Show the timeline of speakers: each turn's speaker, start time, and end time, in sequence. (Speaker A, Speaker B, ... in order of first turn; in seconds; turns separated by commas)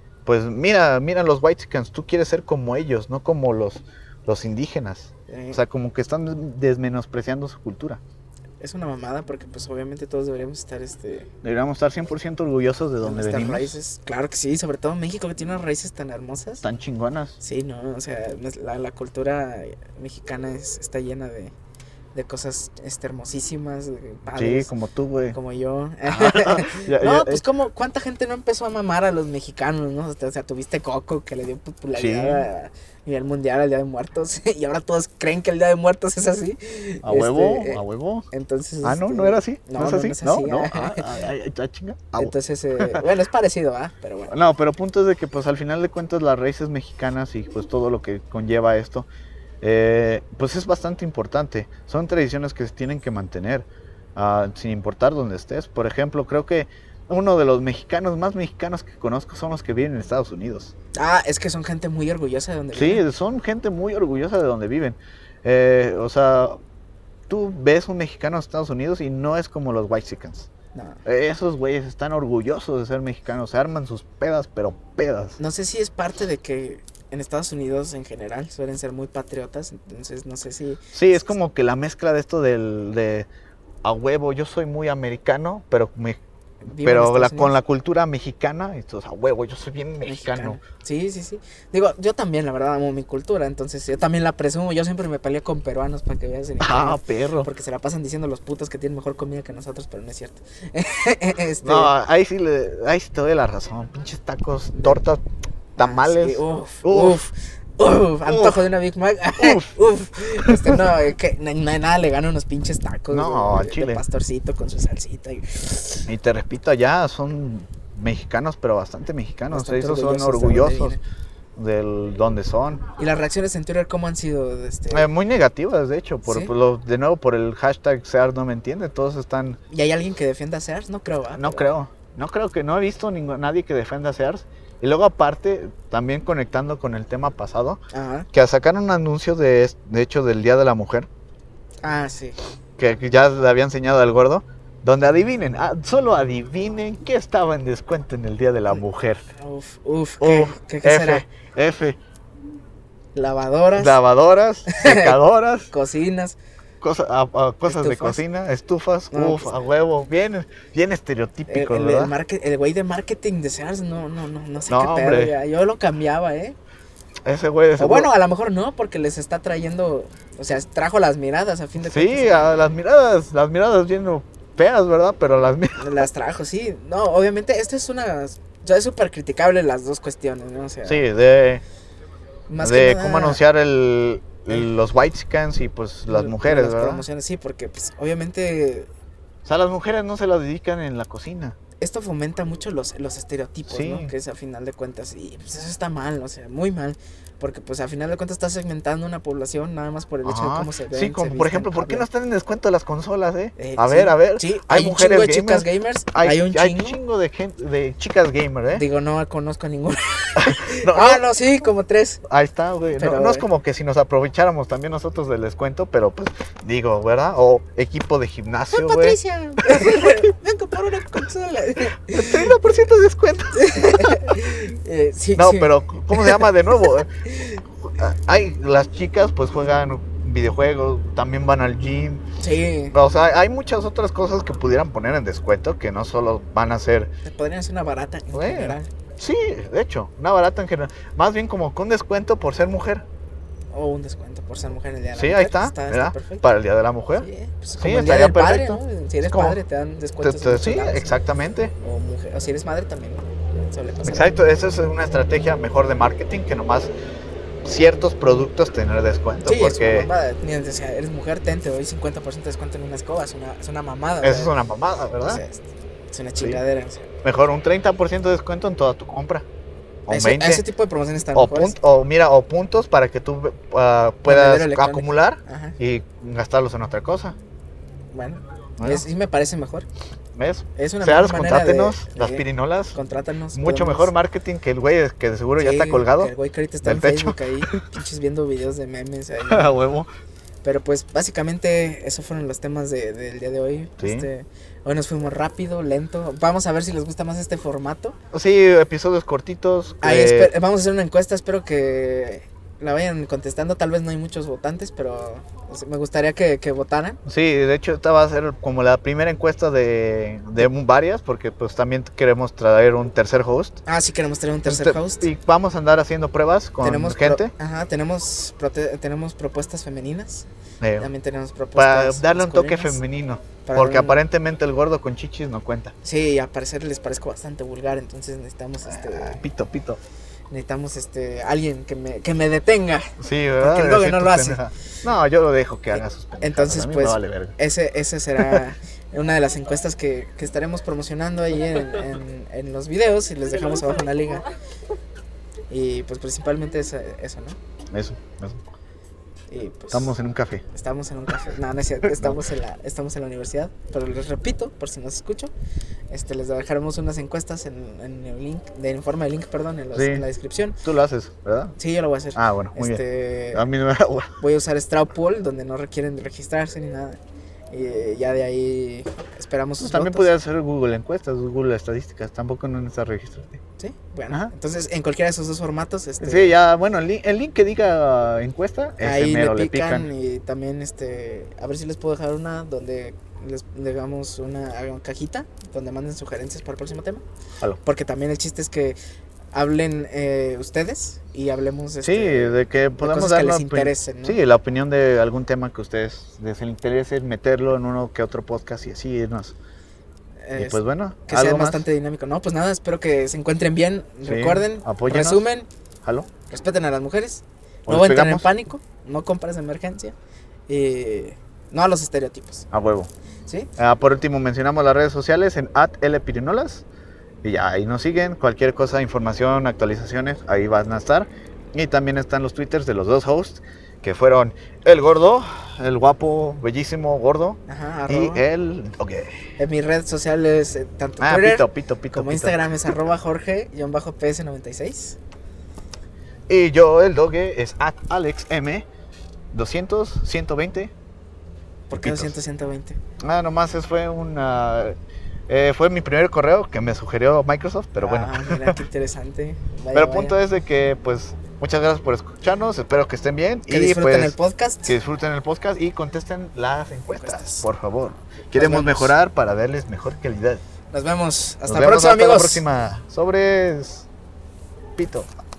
Speaker A: 0.2-8.0, Speaker B: 5.3-5.6, Speaker B: 8.6-11.3, Speaker A: 11.4-13.8, Speaker B: 13.0-16.6, Speaker A: 16.6-17.4, Speaker B: 17.4-21.5, Speaker B: 22.1-24.7, Speaker A: 24.3-25.4, Speaker B: 25.3-41.1, Speaker A: 26.1-27.4, Speaker A: 31.9-32.5, Speaker A: 37.0-38.3, Speaker A: 38.8-43.1, Speaker B: 42.2-44.4, Speaker A: 44.3-49.1, Speaker A: 49.6-60.7, Speaker B: 61.0-63.0, Speaker A: 62.7-66.6, Speaker A: 67.3-70.5, Speaker B: 70.8-71.0, Speaker A: 71.0-75.4, Speaker B: 75.4-80.8, Speaker A: 80.9-83.3, Speaker A: 83.8-86.2, Speaker B: 86.7-87.6, Speaker A: 86.8-90.6, Speaker B: 90.0-101.9, Speaker A: 96.6-97.5, Speaker A: 101.6-105.2, Speaker A: 105.8-107.2, Speaker B: 105.8-116.1, Speaker A: 108.3-108.7, Speaker A: 109.4-109.8, Speaker A: 110.4-110.8, Speaker A: 113.1-114.0, Speaker A: 116.1-121.0, Speaker B: 119.5-121.0, Speaker A: 121.6-122.9, Speaker B: 123.0-125.1, Speaker A: 124.9-129.6, Speaker B: 126.2-126.5, Speaker B: 129.7-131.7, Speaker A: 131.4-137.8, Speaker B: 137.9-138.3, Speaker A: 138.3-141.1, Speaker B: 141.8-142.4, Speaker A: 142.8-149.2, Speaker B: 149.4-151.3, Speaker A: 150.2-152.0, Speaker B: 153.1-154.0, Speaker A: 153.8-155.7, Speaker B: 154.7-155.2, Speaker B: 155.7-156.4, Speaker A: 156.8-162.2, Speaker B: 157.7-158.2, Speaker B: 159.1-159.6, Speaker B: 161.5-166.6, Speaker A: 164.7-165.3, Speaker A: 167.2-168.1, Speaker B: 167.8-172.5, Speaker A: 171.8-176.1, Speaker B: 175.8-181.1, Speaker A: 180.8-181.6, Speaker B: 182.5-183.4, Speaker A: 182.6-187.1, Speaker B: 186.1-188.9, Speaker A: 189.4-191.6, Speaker B: 191.8-202.1, Speaker A: 193.7-194.1, Speaker A: 200.2-208.8, Speaker B: 203.6-207.0, Speaker B: 208.7-212.2, Speaker A: 210.4-211.2, Speaker A: 212.2-220.3, Speaker B: 213.0-213.5, Speaker B: 218.7-222.5, Speaker A: 222.1-224.4, Speaker B: 223.5-227.6, Speaker A: 225.4-227.1, Speaker A: 227.8-232.2, Speaker B: 232.4-233.0, Speaker A: 232.9-237.1, Speaker B: 237.2-238.9, Speaker A: 238.3-243.1, Speaker B: 243.7-246.5, Speaker A: 245.2-247.3, Speaker B: 247.2-251.1, Speaker A: 247.8-249.6, Speaker A: 250.2-251.7, Speaker B: 251.8-254.4, Speaker A: 254.0-256.9, Speaker A: 257.6-260.1, Speaker B: 259.4-264.5, Speaker A: 264.2-265.4, Speaker B: 265.2-267.1, Speaker A: 267.2-269.5, Speaker A: 270.1-270.6, Speaker B: 270.1-271.8, Speaker A: 271.3-277.4, Speaker B: 274.3-275.8, Speaker B: 278.1-279.9, Speaker A: 278.8-279.1, Speaker A: 280.4-283.0, Speaker B: 280.8-284.1, Speaker A: 283.5-286.3, Speaker B: 285.6-289.8, Speaker A: 286.8-287.8, Speaker A: 289.5-290.1, Speaker B: 290.6-298.2, Speaker A: 294.0-294.3, Speaker A: 298.3-300.5, Speaker B: 300.0-307.2, Speaker A: 307.3-313.8, Speaker B: 313.9-315.3, Speaker A: 314.7-317.5, Speaker B: 316.8-320.5, Speaker A: 320.8-321.1, Speaker B: 321.0-323.0, Speaker A: 321.8-325.9, Speaker B: 323.6-324.2, Speaker B: 326.0-329.4, Speaker A: 328.8-330.0, Speaker B: 330.5-334.6, Speaker A: 333.2-337.6, Speaker B: 335.9-344.4, Speaker B: 345.7-347.6, Speaker A: 347.9-348.6, Speaker B: 349.5-350.1, Speaker A: 349.9-350.6, Speaker B: 350.7-355.5, Speaker A: 352.0-352.4, Speaker B: 356.1-360.8, Speaker A: 359.9-360.3, Speaker A: 360.8-361.8, Speaker B: 361.8-363.6, Speaker A: 362.4-363.0, Speaker A: 363.5-364.3, Speaker B: 364.4-367.2, Speaker B: 367.7-370.3, Speaker A: 369.8-373.6, Speaker B: 373.8-376.6, Speaker A: 376.2-380.1, Speaker B: 379.0-387.2, Speaker B: 387.8-389.0, Speaker B: 389.5-394.4, Speaker A: 392.0-399.6, Speaker B: 400.4-405.7, Speaker A: 400.6-401.9, Speaker A: 404.2-405.5, Speaker A: 406.0-406.3, Speaker B: 406.5-410.1, Speaker A: 407.9-408.5, Speaker B: 410.7-412.7, Speaker A: 412.7-413.1, Speaker A: 413.8-416.9, Speaker A: 417.4-429.4, Speaker B: 427.7-428.4, Speaker B: 429.6-435.2, Speaker A: 431.2-432.6, Speaker A: 436.5-438.9, Speaker A: 439.5-440.9, Speaker B: 441.9-443.0, Speaker A: 441.9-442.3, Speaker A: 443.2-444.9, Speaker A: 445.5-448.8, Speaker B: 448.0-450.4, Speaker A: 449.9-454.4, Speaker B: 453.7-454.9, Speaker A: 454.9-460.6, Speaker B: 457.1-457.7, Speaker B: 458.5-459.1, Speaker B: 460.9-462.6, Speaker A: 461.7-464.1, Speaker A: 464.9-465.3